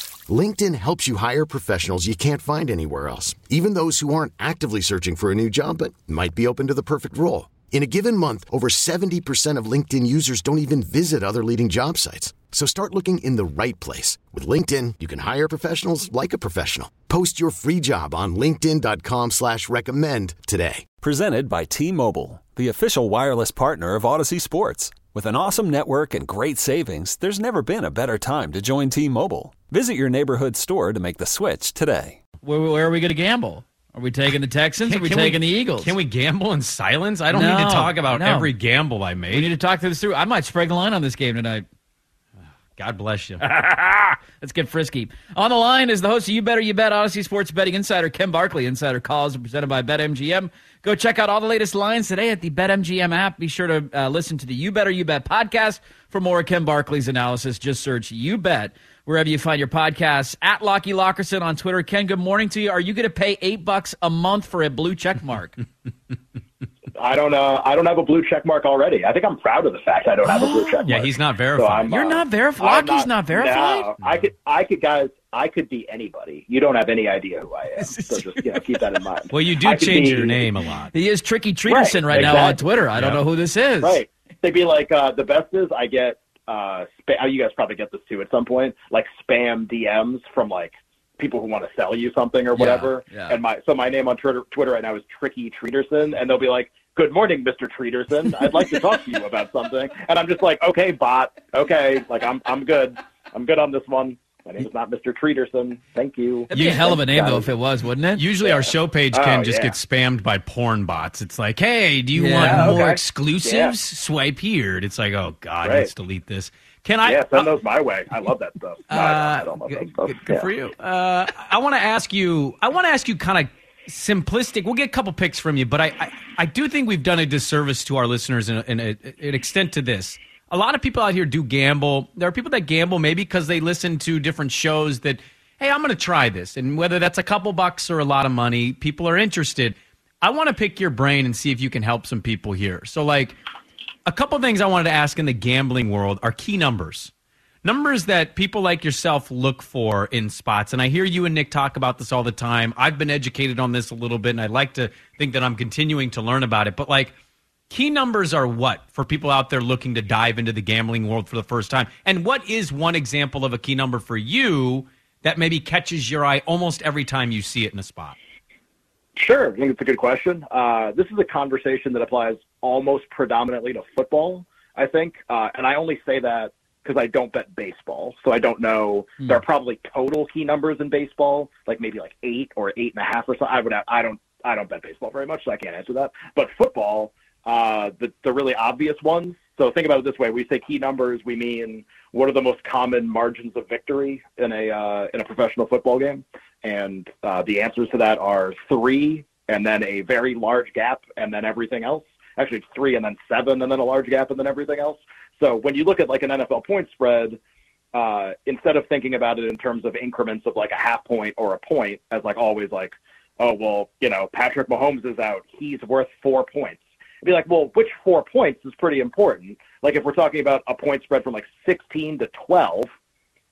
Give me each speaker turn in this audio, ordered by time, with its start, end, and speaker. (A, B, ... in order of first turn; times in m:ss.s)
0:00.3-0:20.8 A
0:21.0-0:32.2 B
0:32.4-0:35.9 C
0:34.8-0:39.5 D
0:37.3-0:38.5 C
0:39.3-0:41.6 C
0:42.8-0:43.4 D
0:43.4-1:05.6 C
1:06.9-1:20.5 E
1:10.2-1:11.0 C
1:10.9-1:12.2 D
1:11.9-1:13.9 C
1:17.8-1:19.0 C
1:19.3-1:20.9 D
1:20.9-1:24.0 C
1:21.7-1:22.6 E
1:22.1-1:23.2 D
1:23.8-1:47.5 E
1:32.5-1:33.4 C
1:46.5-1:48.2 C
1:46.5-1:46.9 D
1:48.2-1:57.6 D
1:48.4-1:49.8 E
1:52.1-1:52.9 C
1:52.4-1:53.7 E
1:55.6-1:55.9 E
1:57.0-2:00.5 E
1:58.9-2:23.4 D
2:24.0-2:27.1 D
2:27.6-2:37.1 D
2:37.7-2:48.2 D
2:49.2-3:27.4 E
3:27.9-3:42.9 E